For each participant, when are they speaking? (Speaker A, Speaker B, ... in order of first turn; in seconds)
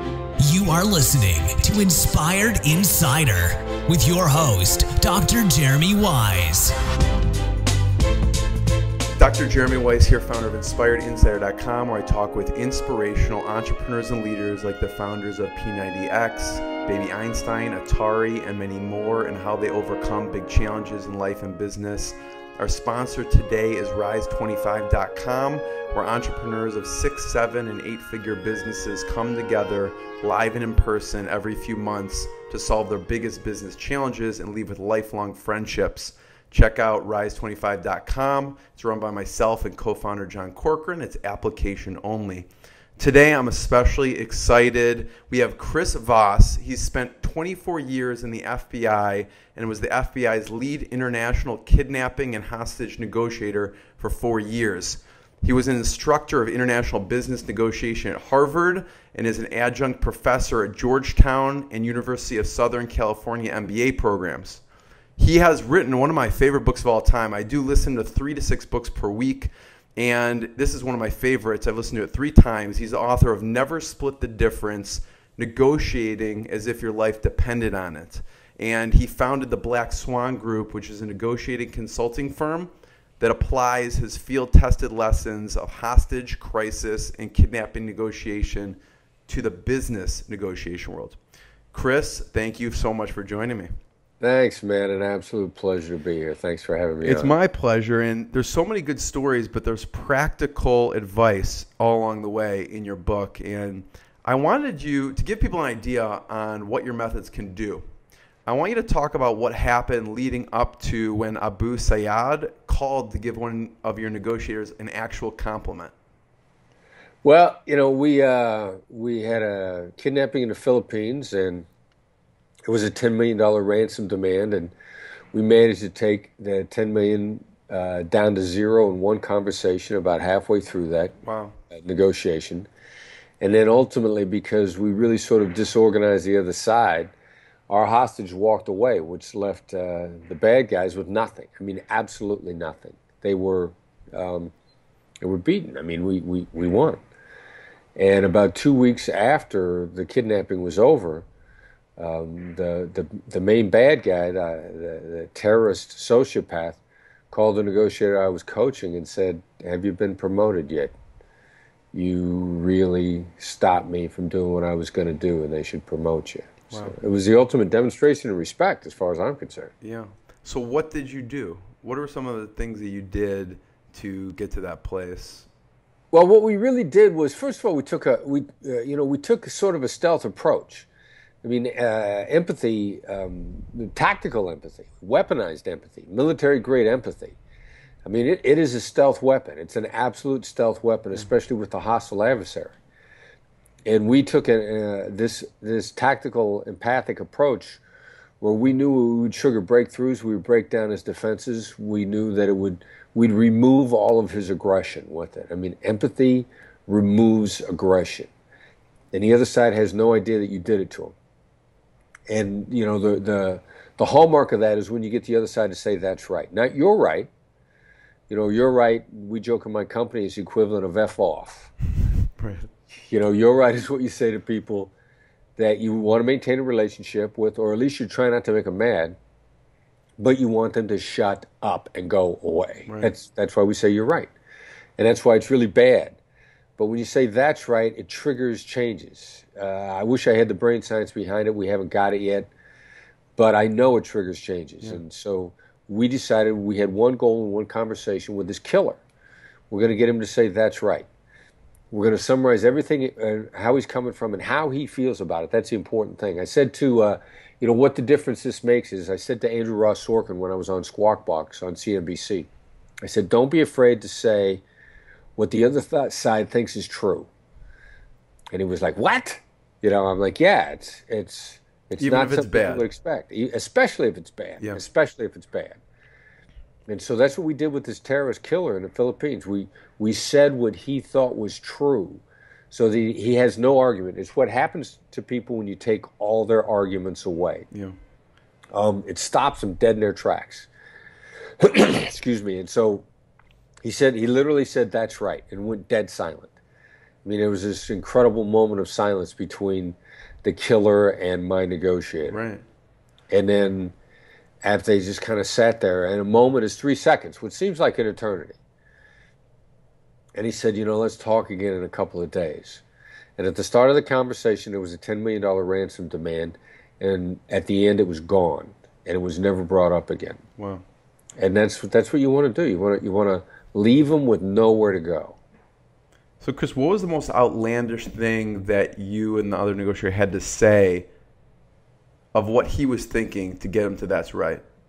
Speaker A: 0.4-6.7
Speaker B: 9.2-64.6, 65.2-91.2, 91.7-93.7, 97.0-107.8, 108.5-115.9, 131.2-131.6, 169.8-175.5, 222.3-222.7, 232.8-233.1, 272.0-272.8, 287.7-287.9, 302.3-302.6, 320.6-320.8, 326.4-331.1, 332.3-334.6
Speaker C: 94.2-97.3, 117.2-121.7, 122.7-124.7, 125.3-131.1, 131.7-132.7, 133.4-137.1, 137.7-144.5, 145.2-147.0, 147.9-151.2, 152.0-156.8, 157.3-160.9, 161.9-169.7, 176.1-180.9, 181.4-187.4, 188.1-192.7, 193.8-197.8, 198.4-208.3, 209.1-211.1, 212.3-217.3, 218.3-221.7, 223.1-224.9, 225.6-229.2, 230.2-234.3, 235.0-236.2, 236.8-242.5, 243.4-249.0, 249.7-251.1, 251.9-262.5, 263.0-264.6, 265.4-267.3, 268.5-275.8, 276.9-287.7, 288.7-290.7, 291.6-293.1, 293.8-296.5, 297.2-302.4, 303.3-303.9, 304.6-308.6, 310.3-312.8, 313.4-320.4, 321.4-325.4